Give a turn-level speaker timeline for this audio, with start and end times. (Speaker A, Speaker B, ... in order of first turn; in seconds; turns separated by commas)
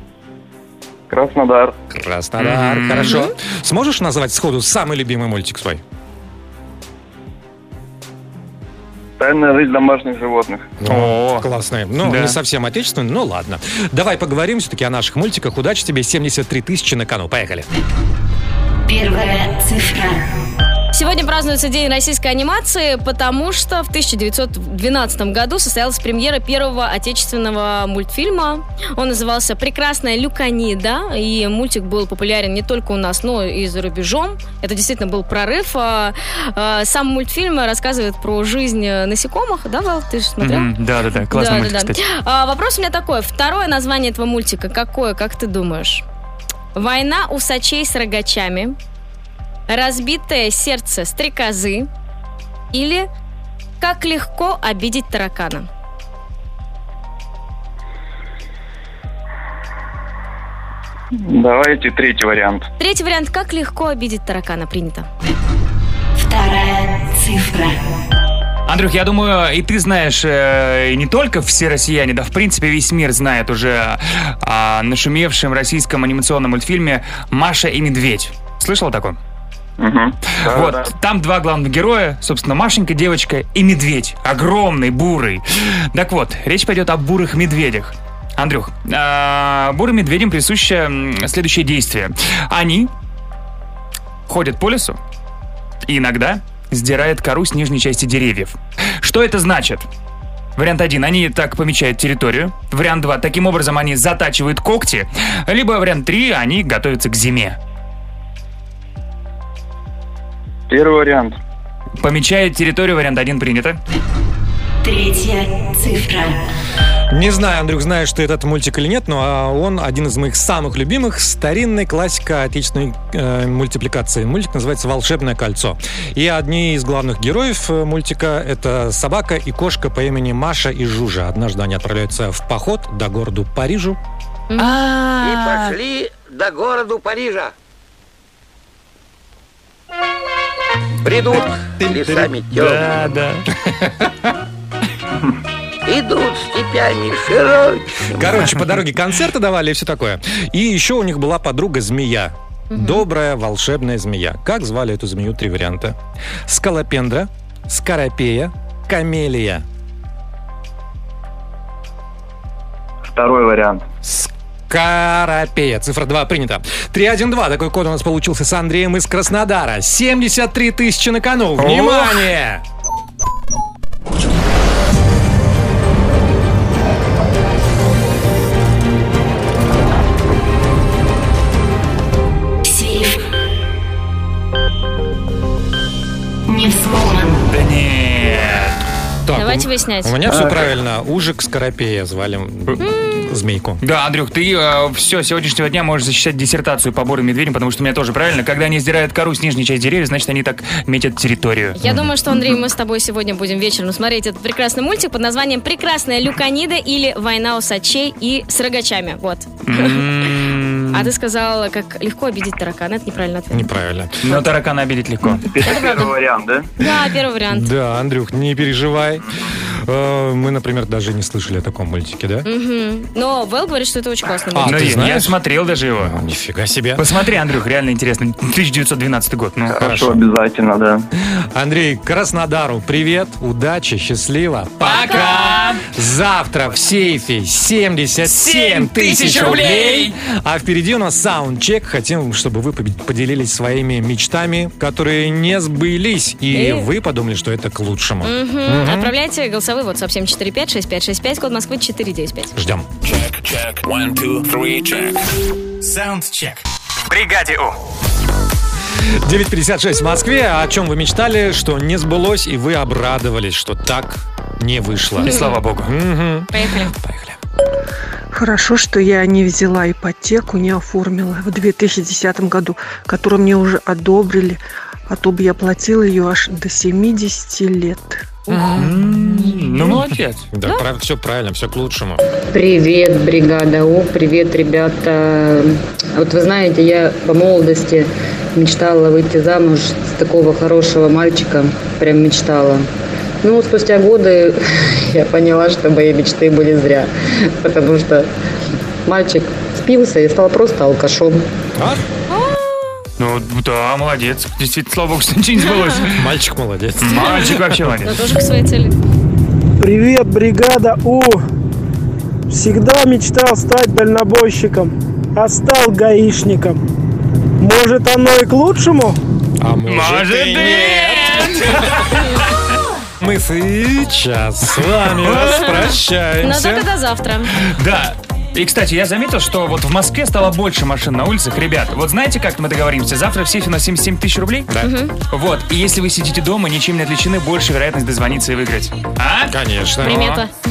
Speaker A: 1.1-1.8, Speaker B: 1.9-5.8, Speaker C: 2.4-3.2, Speaker D: 3.0-3.3, Speaker A: 9.2-10.7, Speaker B: 10.8-17.7, Speaker C: 10.9-11.4, Speaker C: 12.0-12.4, Speaker E: 18.9-20.3, Speaker D: 20.9-40.7, Speaker C: 40.4-42.0, Speaker D: 41.3-46.0, Speaker D: 46.7-48.8, Speaker D: 49.7-51.9, Speaker D: 52.7-53.1, Speaker D: 53.8-55.7, Speaker A: 61.2-62.7, Speaker D: 62.8-65.1, Speaker E: 66.2-67.8, Speaker C: 68.7-79.2, Speaker A: 79.8-80.9, Speaker C: 80.4-92.9, Speaker C: 94.3-95.0, Speaker C: 95.9-99.9, Speaker C: 100.6-107.6, Speaker A: 110.7-111.4, Speaker C: 112.0-113.8, Speaker E: 114.8-116.5, Speaker B: 117.1-134.0, Speaker C: 134.6-135.8, Speaker F: 135.2-137.4, Speaker F: 141.1-142.8, Speaker B: 141.8-142.4, Speaker C: 142.5-143.4, Speaker B: 143.6-144.1, Speaker F: 145.9-148.2, Speaker B: 148.1-159.6, Speaker D: 152.7-153.1, Speaker A: 163.0-163.8, Speaker B: 164.1-172.6, Speaker C: 171.6-172.1, Speaker E: 182.6-183.2, Speaker E: 186.5-187.4, Speaker C: 187.5-188.8, Speaker B: 189.3-193.8, Speaker D: 189.4-190.2, Speaker C: 190.4-190.7, Speaker D: 192.8-193.3, Speaker C: 193.8-201.8, Speaker D: 201.8-210.1, Speaker B: 201.8-202.1, Speaker C: 209.7-211.1, Speaker D: 210.9-213.7, Speaker B: 213.5-214.2, Speaker C: 214.2-216.1, Speaker A: 215.4-216.7, Speaker D: 215.6-216.1, Speaker D: 216.8-217.7, Speaker B: 217.5-222.4, Speaker D: 222.4-224.8, Speaker B: 224.5-225.3, Speaker C: 224.6-226.1, Speaker B: 226.0-227.1, Speaker C: 227.0-230.0, Speaker A: 229.7-231.1, Speaker B: 229.8-230.2, Speaker B: 231.5-249.1, Speaker C: 234.8-235.8, Speaker C: 238.2-240.1, Speaker D: 246.5-246.9, Speaker D: 248.2-252.5, Speaker B: 252.6-252.9, Speaker G: 253.0-255.2, Speaker G: 255.8-256.6, Speaker C: 257.2-257.6, Speaker B: 259.0-267.4, Speaker C: 265.2-265.9, Speaker D: 265.2-265.6, Speaker D: 266.5-266.9, Speaker H: 268.3-278.4, Speaker B: 278.5-280.0, Speaker C: 278.6-280.4, Speaker B: 280.5-282.2, Speaker I: 282.5-292.9, Speaker I: 293.4-298.3, Speaker I: 299.1-301.4, Speaker B: 301.8-302.0, Speaker D: 302.3-303.0, Speaker C: 303.2-306.3, Speaker B: 306.1-307.8, Speaker C: 307.0-308.2, Speaker D: 308.0-309.0, Speaker J: 309.8-311.4, Speaker J: 312.5-316.8, Speaker J: 317.6-319.2, Speaker B: 319.6-322.1, Speaker C: 319.9-322.4, Speaker B: 323.2-326.9, Speaker D: 325.3-327.6, Speaker C: 327.6-334.7, Speaker B: 334.7-334.9, Speaker D: 334.8-335.1, Speaker C: 335.3-340.4, Speaker B: 339.5-340.4, Speaker D: 340.0-340.5